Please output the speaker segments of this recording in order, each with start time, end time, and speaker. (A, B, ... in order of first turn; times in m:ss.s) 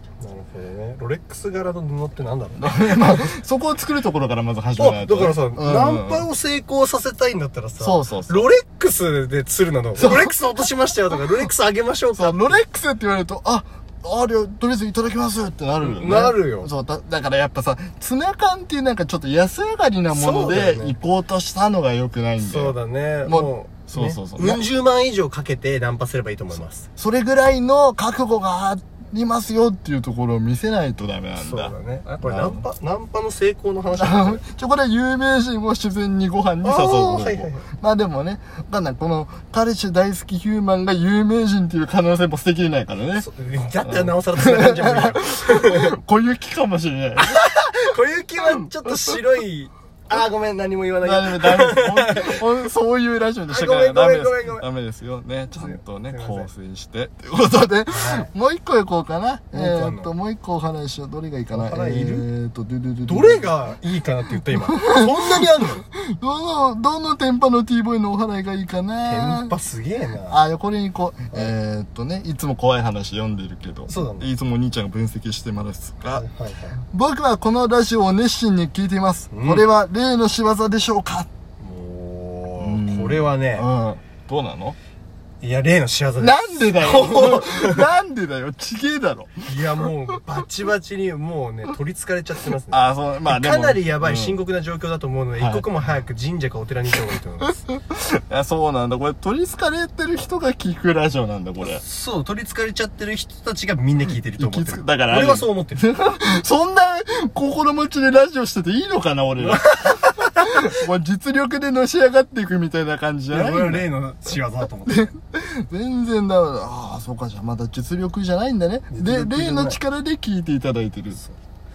0:00.2-0:03.3 A
0:02.6-0:06.3 B
0:04.8-0:12.6 A
0:07.8-0:08.5 B
0:10.0-0:10.3 B
0:12.2-0:24.6 B
0:15.8-0:16.7 A
0:20.1-0:21.0 A
0:22.4-0:26.9 A
0:27.0-0:32.6 B
0:31.4-0:34.4 A
0:34.0-0:43.3 B
0:36.6-0:37.6 A
0:43.2-0:45.9 A
0:43.8-0:47.4 B
0:47.2-0:52.4 A
0:48.5-0:49.2 B
0:51.0-1:03.7 B
0:53.5-0:54.7 A
0:55.5-0:56.5 A
0:57.9-0:58.3 A
0:59.5-1:00.1 A
1:01.5-1:02.3 A
1:03.0-1:05.9 A
1:04.7-1:05.5 B
1:06.0-1:09.5 B
1:09.0-1:10.4 A
1:10.3-1:16.2 B
1:13.9-1:14.3 A
1:16.1-1:16.8 A
1:16.9-1:21.3 B
1:19.3-1:19.7 A
1:21.6-1:23.7 A
1:22.6-1:24.8 B
1:25.4-1:27.9 A
1:26.2-1:29.9 B
1:29.4-1:37.6 A
1:32.7-1:34.4 B
1:35.4-1:35.7 B
1:37.6-1:41.8 B
1:41.6-1:45.8 A
1:44.4-1:53.9 B
1:49.4-1:50.7 A
1:53.3-1:55.1 A
1:54.9-2:01.2 B
1:58.9-1:59.8 A